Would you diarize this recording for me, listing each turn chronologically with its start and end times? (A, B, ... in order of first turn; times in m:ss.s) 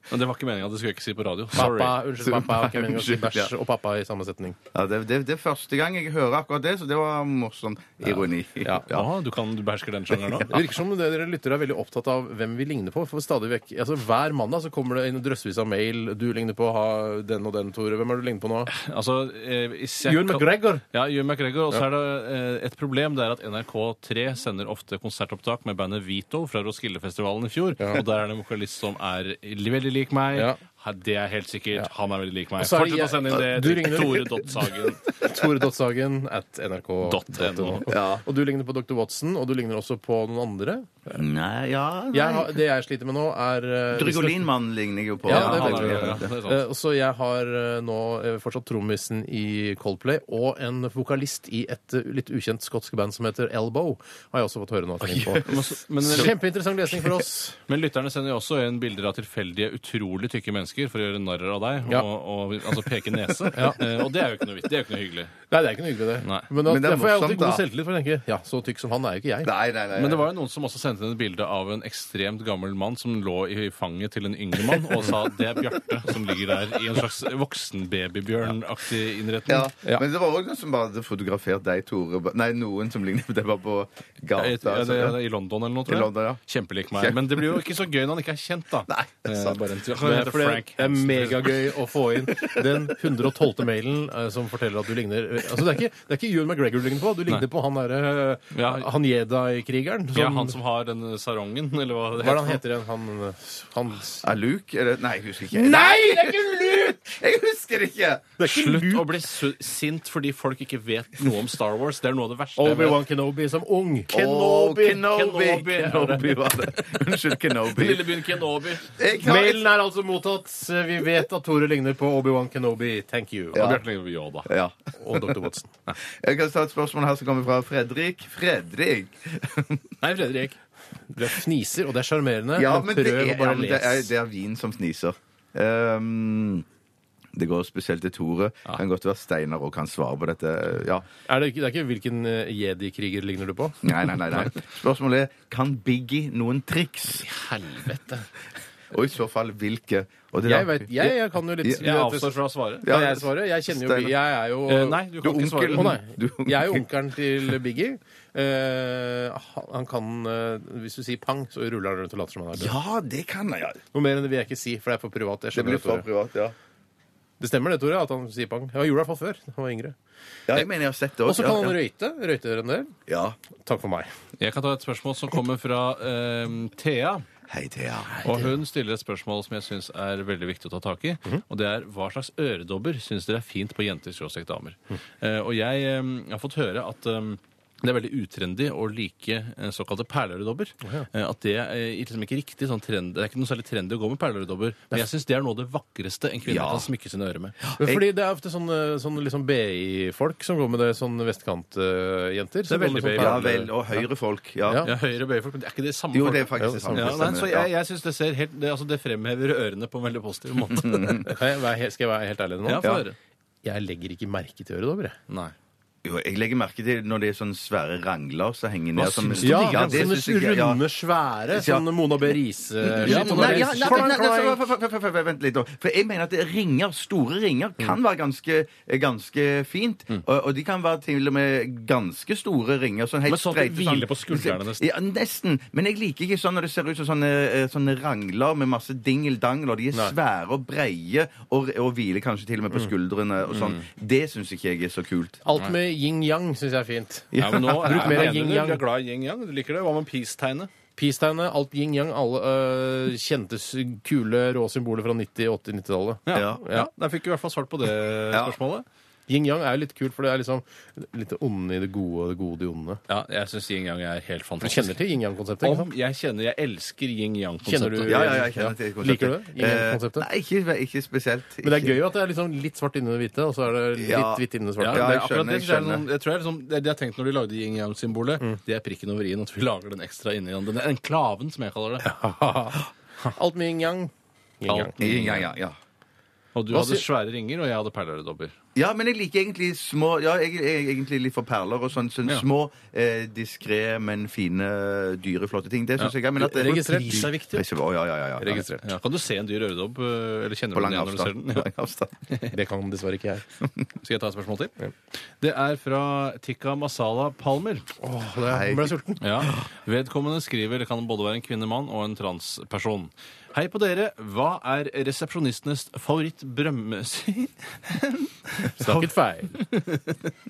0:00.1-0:02.0 A
0:01.6-0:04.6 B
0:02.2-0:03.5 C
0:04.7-0:09.1 C
0:08.6-0:08.9 B
0:08.9-0:10.6 A
0:10.5-0:18.7 B
0:18.7-0:35.1 A
0:20.0-0:20.8 B
0:32.6-0:41.2 B
0:37.0-0:37.9 A
0:37.9-0:38.2 C
0:41.1-0:42.6 C
0:42.1-0:44.5 B
0:43.9-0:46.3 C
0:45.2-0:57.6 B
0:45.3-0:46.6 A
0:55.1-0:56.4 A
0:57.7-1:05.4 A
1:03.5-1:03.8 B
1:05.5-1:09.5 B
1:06.6-1:07.6 C
1:09.4-1:10.3 C
1:09.9-1:19.7 A
1:19.5-1:25.2 C
1:24.3-1:31.5 A
1:25.9-1:26.4 C
1:27.0-1:27.6 C
1:28.9-1:29.6 C
1:30.0-1:40.6 B
1:38.5-1:38.9 A
1:40.1-1:42.6 A
1:42.2-1:44.3 B
1:44.2-1:48.3 C
1:45.5-1:47.0 B
1:48.4-1:49.2 B
1:48.4-1:53.0 A
1:52.6-1:55.0 B
1:54.1-1:58.1 C
1:54.7-1:56.9 A
1:57.6-1:58.9 A
1:58.9-1:59.7 C
1:59.2-2:03.7 B
2:03.5-2:03.8 C
2:03.5-2:04.5 A
2:04.4-2:05.4 C
2:05.0-2:05.7 B
2:06.0-2:09.9 C
2:10.0-2:10.6 A
2:11.1-2:14.1 B
2:12.6-2:16.6 C
2:17.3-2:21.1 C
2:21.3-2:24.5 B
2:23.8-2:27.3 C
2:27.2-2:28.3 A
2:28.9-2:31.8 C
2:30.4-2:35.0 B
2:31.8-2:32.9 A
2:32.8-2:34.1 C
2:34.7-2:36.0 A
2:35.2-2:36.8 C
2:35.7-2:42.8 B
2:42.5-2:43.8 C
2:43.9-2:46.1 B
2:45.5-2:46.6 C
2:47.4-2:50.0 B
2:50.5-2:51.8 C
2:51.3-2:53.0 B
2:53.1-2:53.4 C
2:53.6-2:54.1 B
2:54.4-2:57.2 A
2:57.5-2:58.3 C
2:58.2-3:17.6 A
3:16.5-3:16.9 C
3:17.7-3:18.0 C
3:17.8-3:24.0 B
3:22.7-3:23.6 A
3:23.2-3:24.9 C
3:24.6-3:24.9 B
3:24.8-3:31.3 A
3:26.1-3:27.7 C
3:26.6-3:27.2 B
3:30.7-3:31.3 C
3:31.2-3:33.0 B
3:32.7-3:33.2 A
3:33.6-3:35.2 B
3:35.3-3:35.5 A
3:36.0-3:40.8 C
3:39.0-3:40.2 A
3:39.4-3:44.6 B
3:41.5-3:41.9 C
3:42.8-4:05.4 C
3:43.0-3:44.2 A
3:53.3-3:54.9 A
4:05.4-4:08.8 B
4:07.4-4:10.7 A
4:11.0-4:16.9 B
4:16.3-4:18.8 A
4:16.3-4:16.6 C
4:19.3-4:23.0 B
4:23.1-4:25.0 A
4:24.6-4:25.9 B
4:25.6-4:28.4 A
4:27.7-4:30.3 B
4:28.0-4:32.0 C
4:31.6-4:35.1 B
4:34.0-4:36.0 C
4:34.8-4:42.1 A
4:42.0-4:44.9 B
4:44.7-4:45.5 A
4:45.0-4:45.8 C
4:46.6-4:48.5 A
4:46.7-4:47.0 B
4:48.8-4:58.6 C
4:56.4-4:57.7 B
4:58.4-4:58.9 B
4:58.8-5:01.7 A
5:00.7-5:02.2 C
5:02.3-5:02.6 A
5:02.5-5:03.4 B
5:04.0-5:04.7 A
5:05.4-5:07.9 A
5:08.0-5:09.2 B
5:08.5-5:08.9 C
5:09.2-5:20.3 A
5:18.8-5:19.6 B